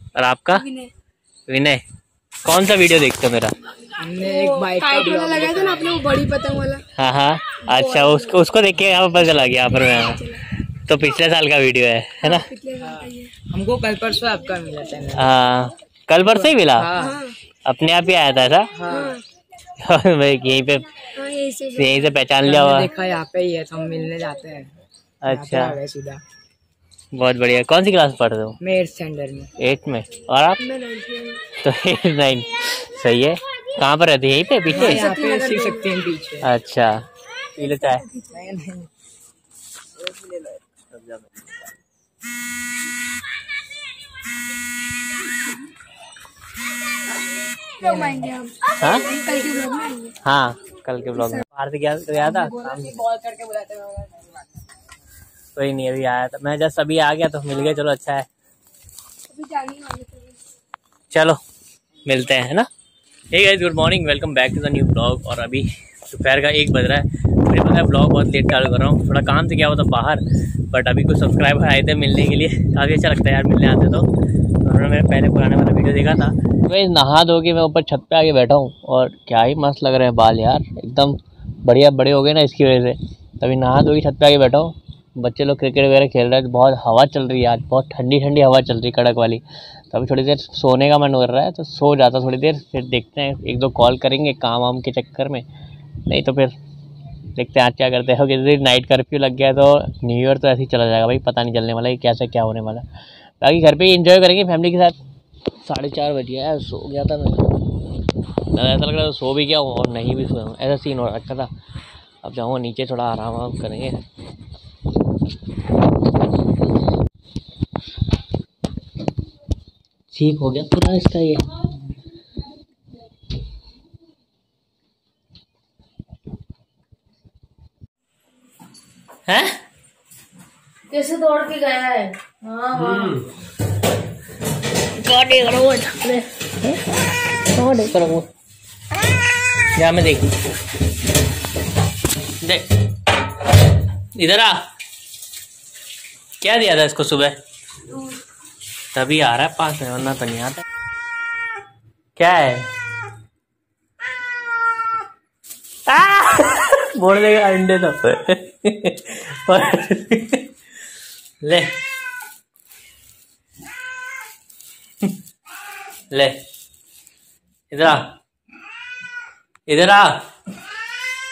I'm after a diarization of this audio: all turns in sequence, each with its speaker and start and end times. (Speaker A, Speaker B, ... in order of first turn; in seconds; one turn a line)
Speaker A: 0.2-0.7
Speaker A: 1.5-1.8
Speaker A: 2.5-3.5
Speaker B: 4.0-6.0
Speaker C: 4.2-6.8
Speaker A: 7.0-12.5
Speaker C: 7.7-8.5
Speaker C: 12.2-13.3
Speaker B: 12.8-15.3
Speaker A: 15.2-16.9
Speaker B: 16.2-17.2
Speaker C: 17.0-17.3
Speaker A: 17.6-18.7
Speaker B: 18.7-19.2
Speaker C: 18.9-19.2
Speaker A: 19.8-21.0
Speaker C: 21.2-22.0
Speaker A: 21.7-22.9
Speaker B: 22.4-26.2
Speaker A: 25.2-25.8
Speaker A: 27.1-28.6
Speaker B: 28.6-29.5
Speaker A: 29.6-30.8
Speaker C: 30.7-31.4
Speaker A: 31.5-35.0
Speaker B: 34.7-36.5
Speaker C: 34.8-35.9
Speaker A: 36.4-38.1
Speaker C: 38.0-38.3
Speaker B: 38.3-38.9
Speaker B: 40.1-40.4
Speaker A: 40.9-41.5
Speaker C: 47.8-50.1
Speaker B: 47.9-48.1
Speaker A: 48.8-49.1
Speaker A: 50.2-53.0
Speaker B: 52.4-54.3
Speaker A: 55.5-58.3
Speaker C: 59.3-60.2
Speaker A: 61.1-61.4
Speaker A: 62.0-62.7
Speaker A: 63.3-74.1
Speaker A: 74.6-95.5
Speaker A: 96.1-96.5
Speaker A: 97.4-102.8
Speaker A: 103.4-105.0
Speaker A: 105.6-107.5
Speaker A: 108.5-111.5
Speaker A: 112.2-114.0
Speaker A: 120.1-121.5
Speaker A: 129.3-129.6
Speaker D: 130.9-133.2
Speaker A: 135.0-136.8
Speaker A: 137.5-138.3
Speaker A: 139.8-140.3
Speaker A: 142.4-142.7
Speaker A: 144.2-144.7
Speaker A: 146.4-147.4
Speaker A: 148.9-150.6
Speaker A: 152.2-152.7
Speaker A: 155.9-160.5
Speaker A: 161.4-161.8
Speaker A: 166.1-166.4
Speaker A: 167.7-168.2
Speaker A: 169.7-170.3